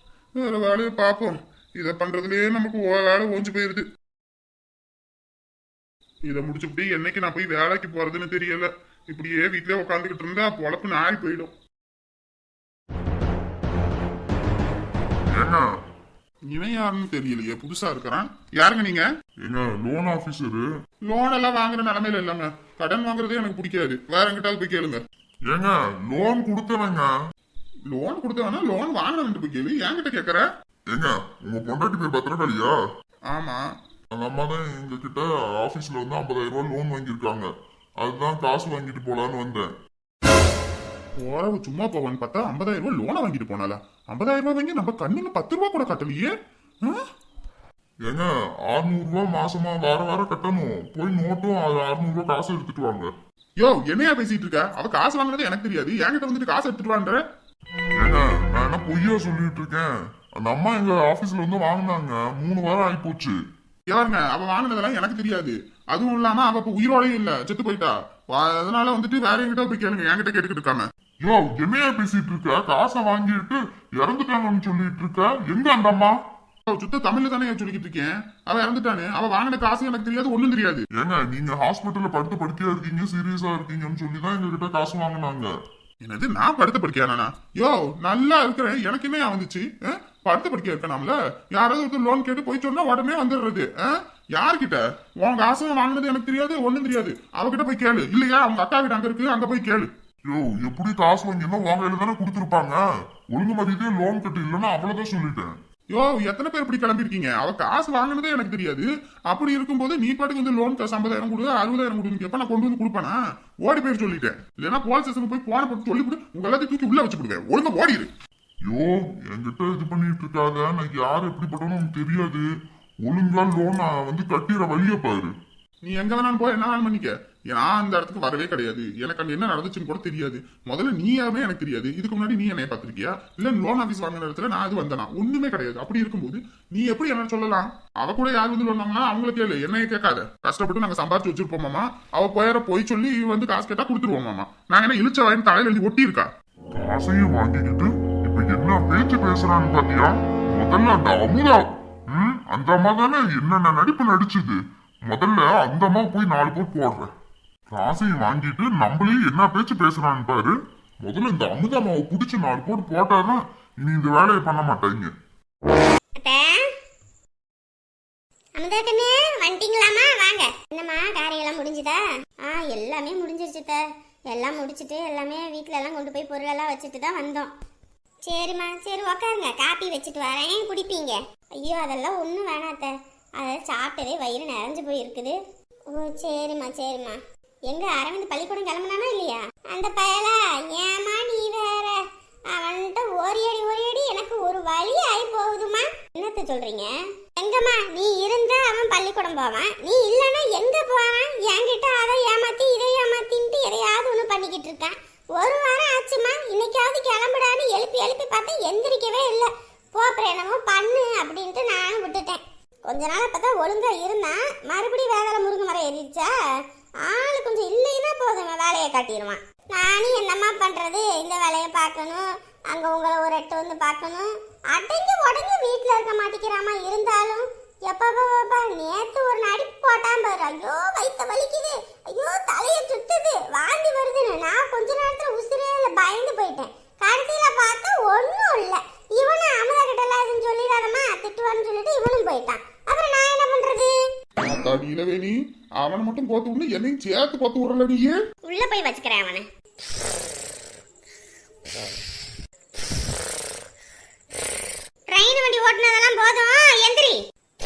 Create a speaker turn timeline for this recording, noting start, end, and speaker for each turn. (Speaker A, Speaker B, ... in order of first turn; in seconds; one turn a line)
Speaker A: 0.4-3.9
Speaker A: 6.3-11.5
Speaker B: 15.3-15.7
Speaker A: 16.5-19.0
Speaker B: 19.4-20.7
Speaker A: 21.1-25.0
Speaker B: 25.5-27.1
Speaker A: 27.9-30.4
Speaker B: 30.9-32.8
Speaker A: 33.3-33.6
Speaker B: 34.1-37.5
Speaker B: 38.0-39.7
Speaker A: 41.2-46.3
Speaker B: 48.0-53.1
Speaker A: 53.6-57.2
Speaker B: 58.0-63.4
Speaker A: 63.9-70.8
Speaker B: 71.2-76.1
Speaker A: 76.7-80.9
Speaker B: 81.0-85.5
Speaker A: 86.0-99.9
Speaker B: 100.3-102.8
Speaker B: 103.3-105.5
Speaker A: 105.9-118.1
Speaker B: 118.7-122.5
Speaker B: 123.0-125.3
Speaker A: 125.8-146.3
Speaker B: 146.7-154.6
Speaker B: 155.1-157.1
Speaker B: 157.7-165.1
Speaker C: 166.2-166.7
Speaker C: 168.6-177.5
Speaker C: 178.2-185.4
Speaker C: 185.9-216.3
Speaker C: 217.0-244.0
Speaker A: 244.4-248.2
Speaker C: 248.4-249.4
Speaker C: 255.1-257.2